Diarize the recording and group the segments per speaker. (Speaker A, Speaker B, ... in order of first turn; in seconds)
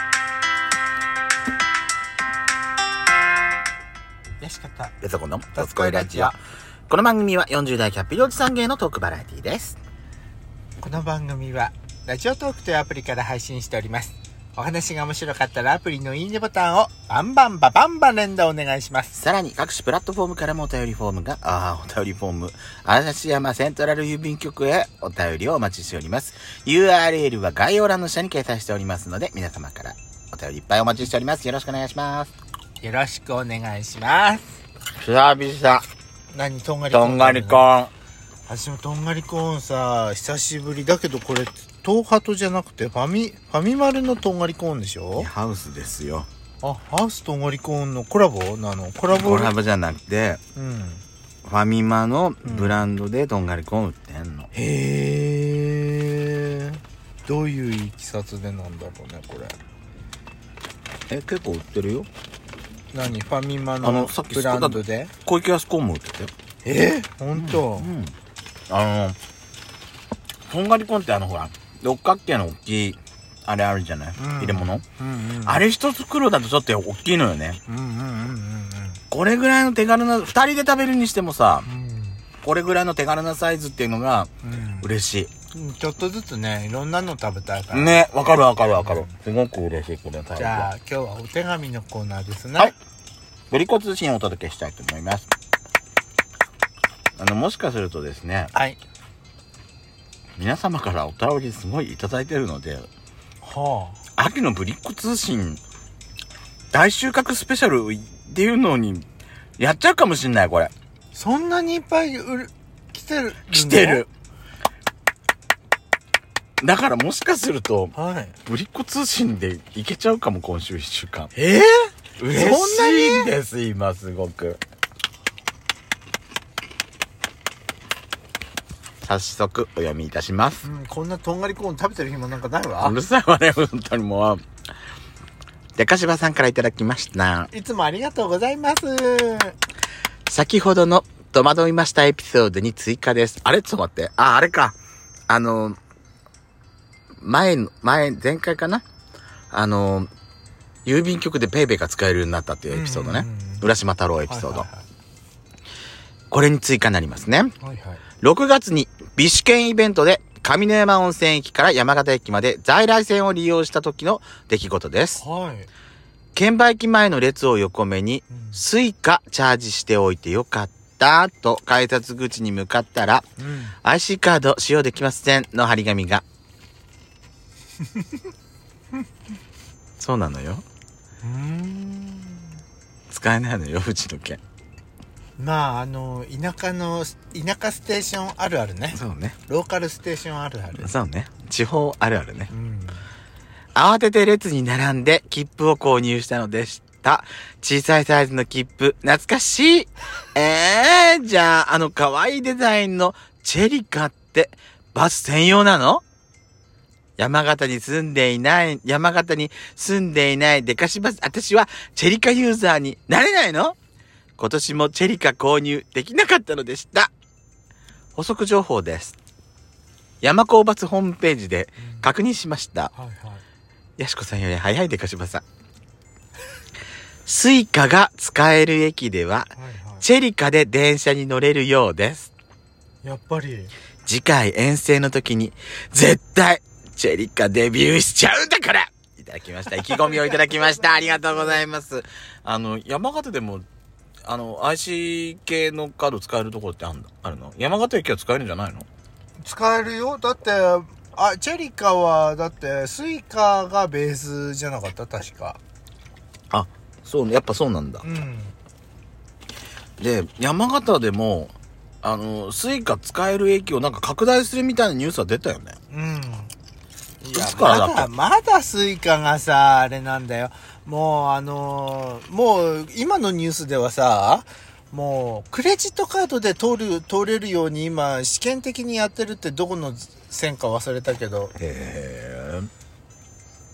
Speaker A: 4.4-4.9, 5.5-6.3, 10.8-19.2, 32.8-34.6, 36.3-37.6, 38.5-45.3, 46.6-49.5, 50.5-51.0, 52.4-52.8, 54.5-59.5, 62.9-65.1, 66.6-67.9, 74.2-75.6, 77.7-79.0, 81.7-82.2, 84.4-84.9, 85.5-88.0, 88.8-89.1, 90.3-92.7, 103.4-104.0, 111.1-114.0, 117.9-118.3, 121.3-123.3, 130.6-132.9, 137.5-139.5, 152.7-153.7, 154.3-154.8, 157.6-158.0, 165.2-165.7, 168.3-168.6, 173.4-173.7, 181.2-182.5, 185.4-190.9, 192.5-193.1, 221.8-222.1, 222.9-223.4, 229.5-230.1, 233.0-233.7, 239.9-241.6, 249.4-255.6, 258.0-258.5, 265.9-266.5, 267.2-281.5
Speaker B: 5.0-6.4, 6.9-9.8, 19.1-32.3, 35.0-35.8, 36.9-37.9, 45.1-46.3, 49.1-50.4, 51.4-54.5, 61.1-62.1, 63.8-66.3, 67.3-68.1, 68.7-69.2, 70.5-74.8, 75.4-77.6, 79.1-81.7, 82.4-85.3, 87.7-90.7, 93.5-95.3, 97.2-98.5, 100.4-102.9, 104.2-105.6, 106.7-109.0, 109.6-110.7, 113.5-114.1, 116.6-117.9, 118.5-121.3, 122.2-124.6, 129.0-130.6, 132.8-134.4, 135.8-137.5, 140.2-144.7, 145.3-145.8, 147.2-148.8, 149.5-150.1, 150.8-154.7, 156.3-157.5, 158.2-165.2, 166.3-173.3, 173.8-176.2, 180.0-180.6, 183.1-184.4, 188.9-189.3, 190.7-192.5, 193.7-206.0, 207.2-213.8, 214.4-217.1, 218.1-219.1, 220.2-222.9, 224.0-225.4, 227.2-232.3, 234.1-243.7, 244.2-248.9, 256.5-258.0, 260.0-265.8, 267.3-268.1, 281.6-282.7